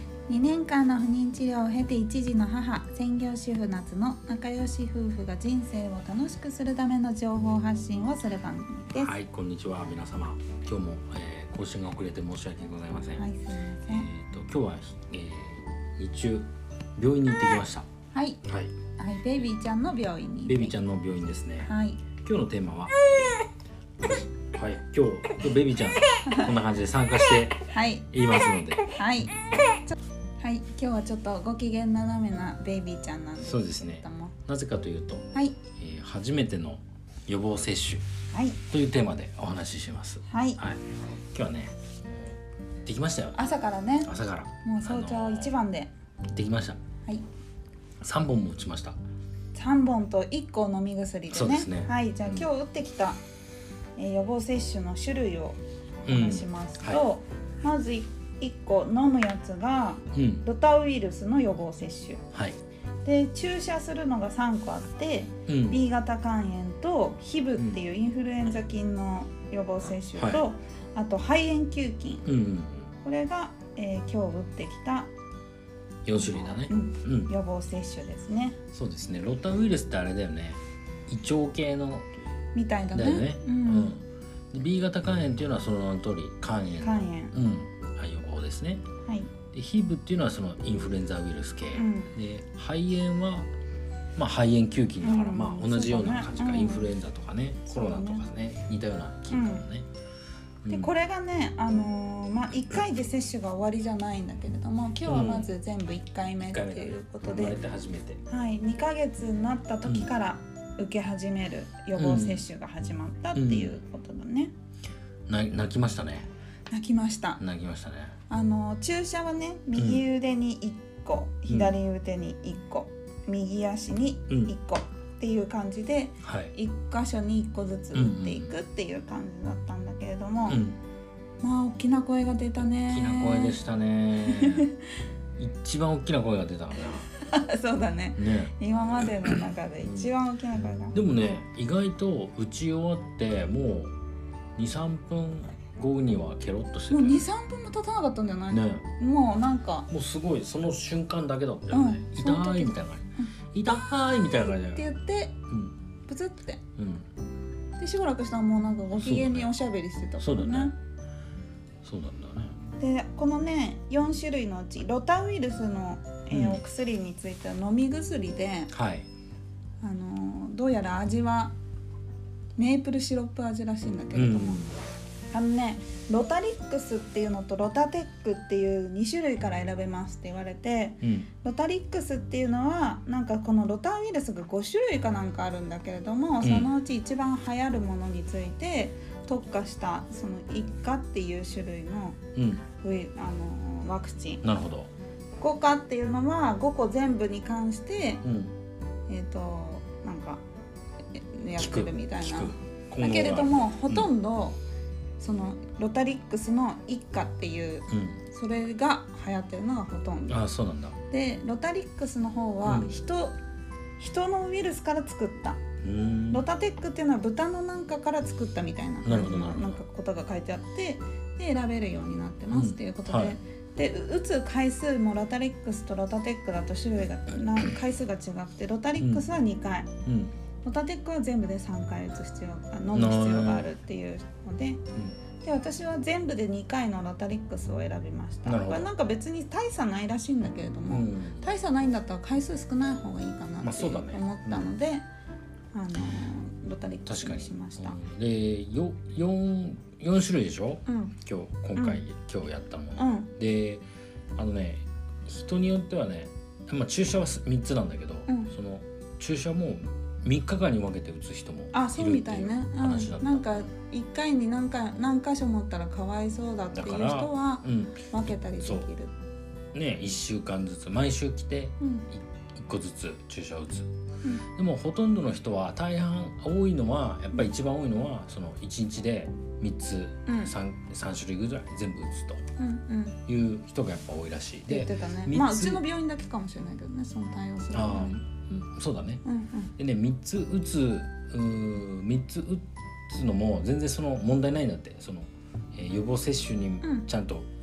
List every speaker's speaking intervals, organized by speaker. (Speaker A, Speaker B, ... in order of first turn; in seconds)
Speaker A: 0.3-9.2, 13.2-14.1, 18.1-18.4, 19.0-20.7, 21.6-22.0, 26.2-26.5, 27.7-28.1, 28.9-34.4, 35.3-35.6, 38.3-38.6, 40.3-40.6, 43.4-44.1, 44.6-45.9, 49.5-53.2, 54.0-62.2, 63.0-72.3, 73.0-75.1, 76.2-78.6, 82.5-83.9, 86.8-87.3, 89.0-89.3, 91.7-92.1, 95.0-96.9, 97.7-98.3, 99.3-99.7, 100.7-107.6, 108.3-114.5, 116.7-117.4, 118.3-130.7, 131.4-133.6, 134.2-134.7, 137.1-141.0, 146.9-149.9, 151.7-153.3, 154.4-155.3, 156.1-156.6, 157.8-160.7, 162.8-168.7, 169.8-171.5, 172.6-174.6, 175.3-192.2, 192.8-194.4, 195.4-198.2, 199.1-200.4, 201.1-204.6, 205.2-210.4, 211.1-213.4, 214.0-215.6, 216.3-229.9, 230.6-234.8, 235.4-245.1, 245.7-248.0, 250.9-251.2, 253.0-253.3, 261.7-269.1, 271.8-272.1, 280.3-280.5, 282.6-283.2, 284.7-288.2, 289.2-289.7
Speaker B: 8.9-13.3, 13.9-17.9, 18.4-18.7, 20.5-23.4, 24.0-28.9, 33.4-38.0, 38.7-42.3, 42.9-43.4, 44.0-45.5, 46.3-46.8, 48.0-49.0, 51.3-52.5, 56.1-57.0, 60.1-60.5, 62.3-62.6, 65.5-65.8, 72.2-72.9, 76.0-77.3, 78.7-82.1, 82.9-88.8, 89.5-93.5, 94.2-99.9, 100.6-100.9, 105.1-105.5, 106.4-108.2, 112.0-112.5, 113.3-113.8, 115.3-116.3, 117.4-118.2, 119.8-120.0, 121.5-121.7, 126.2-126.5, 127.9-128.5, 130.5-130.8, 132.6-134.7, 135.4-137.1, 138.2-138.5, 139.8-140.1, 140.9-143.9, 144.6-147.3, 148.5-148.8, 149.9-154.9, 155.5-155.8, 156.8-157.1, 158.9-159.5, 160.2-160.7, 161.8-162.6, 166.3-166.6, 168.7-169.1, 174.1-174.8, 181.0-181.3, 186.4-186.7, 192.3-192.7, 194.4-194.9, 198.2-198.5, 201.6-204.1, 207.9-208.2, 210.3-211.0, 212.6-212.9, 215.8-216.4, 219.0-219.8, 222.5-223.4, 229.0-229.2, 230.1-230.3, 232.9-233.7, 238.4-238.9, 240.9-241.5, 243.6-244.7, 247.1-253.8, 254.4-263.7, 266.7-268.9, 269.7-273.9, 274.6-282.4, 283.3-285.8, 287.7-289.2, 289.8-297.5